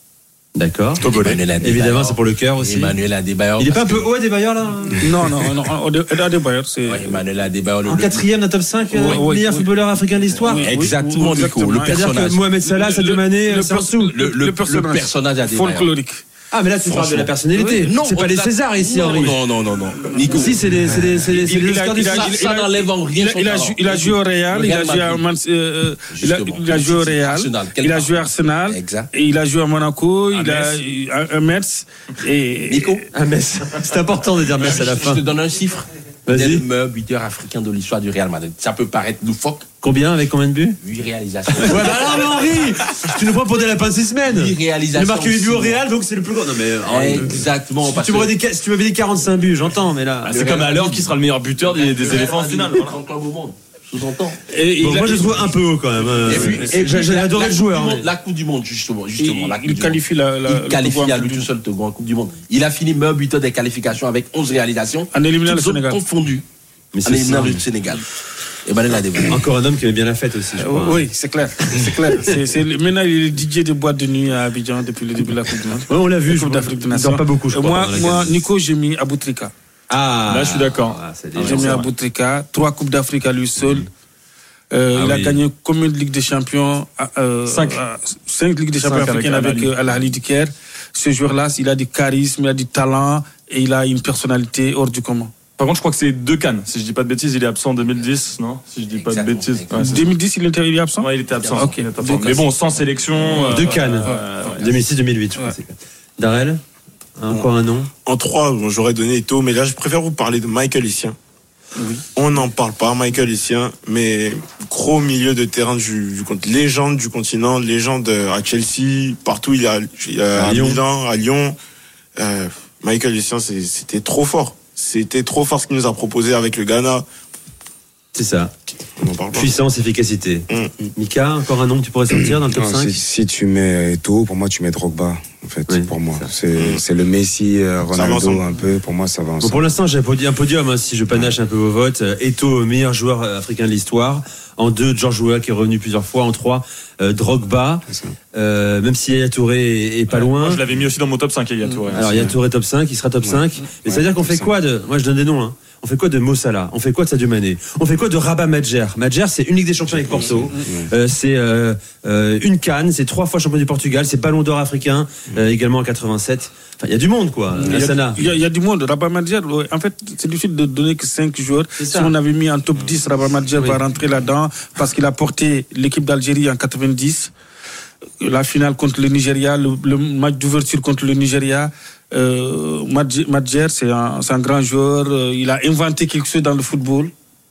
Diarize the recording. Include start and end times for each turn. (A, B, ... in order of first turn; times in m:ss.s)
0:00.5-0:03.0 A
0:01.0-0:01.4 B
0:01.1-0:04.1 C
0:03.6-0:05.3 A
0:05.0-0:07.2 D
0:06.8-0:08.3 C
0:07.8-0:10.8 A
0:08.9-0:09.7 D
0:10.4-0:12.4 C
0:10.4-0:16.2 D
0:11.8-0:14.1 A
0:14.1-0:15.9 C
0:16.5-0:19.4 A
0:16.8-0:20.6 C
0:20.3-0:22.2 A
0:20.8-0:21.1 E
0:21.2-0:21.5 C
0:21.4-0:33.0 D
0:22.0-0:25.2 C
0:26.1-0:29.1 C
0:30.3-0:30.7 B
0:32.7-0:33.0 C
0:33.1-0:35.2 A
0:34.6-0:39.7 C
0:36.3-0:36.6 A
0:39.8-0:40.8 A
0:40.8-0:42.9 C
0:41.5-0:51.0 A
0:44.3-0:45.8 C
0:46.8-0:48.4 C
0:50.3-0:54.4 C
0:50.3-0:52.9 B
0:54.5-0:55.5 D
0:54.8-0:58.1 A
0:56.2-1:06.4 C
0:56.4-0:56.7 D
0:59.2-1:01.5 D
1:05.1-1:06.0 D
1:06.9-1:07.6 A
1:07.0-1:08.0 C
1:08.6-1:09.4 C
1:09.3-1:11.0 A
1:10.6-1:19.5 D
1:15.9-1:18.4 A
1:19.9-1:21.8 A
1:20.3-1:21.9 B
1:21.4-1:23.9 D
1:24.7-1:35.4 D
1:24.9-1:25.4 A
1:27.5-1:27.8 B
1:28.8-1:29.7 B
1:35.6-1:40.0 B
1:38.9-1:40.1 C
1:39.8-1:42.5 D
1:41.0-1:44.7 B
1:41.3-1:41.8 C
1:43.2-1:44.6 D
1:43.4-1:46.6 A
1:47.2-1:47.9 A
1:48.0-1:51.2 F
1:51.8-1:52.0 D
1:52.1-2:01.5 F
2:00.3-2:00.8 A
2:02.2-2:07.0 F
2:08.1-2:08.5 A
2:09.0-2:09.6 F
2:09.3-2:13.0 A
2:10.5-2:10.7 F
2:12.1-2:19.7 E
2:15.7-2:16.3 A
2:16.5-2:16.8 F
2:17.9-2:18.4 F
2:19.4-2:30.6 A
2:21.1-2:21.4 E
2:27.9-2:28.1 E
2:30.1-2:32.2 B
2:31.9-2:32.4 E
2:31.9-2:48.2 A
2:33.2-2:34.5 E
2:39.9-2:40.9 E
2:47.6-2:57.3 D
2:51.8-2:52.1 A
2:58.2-3:07.1 D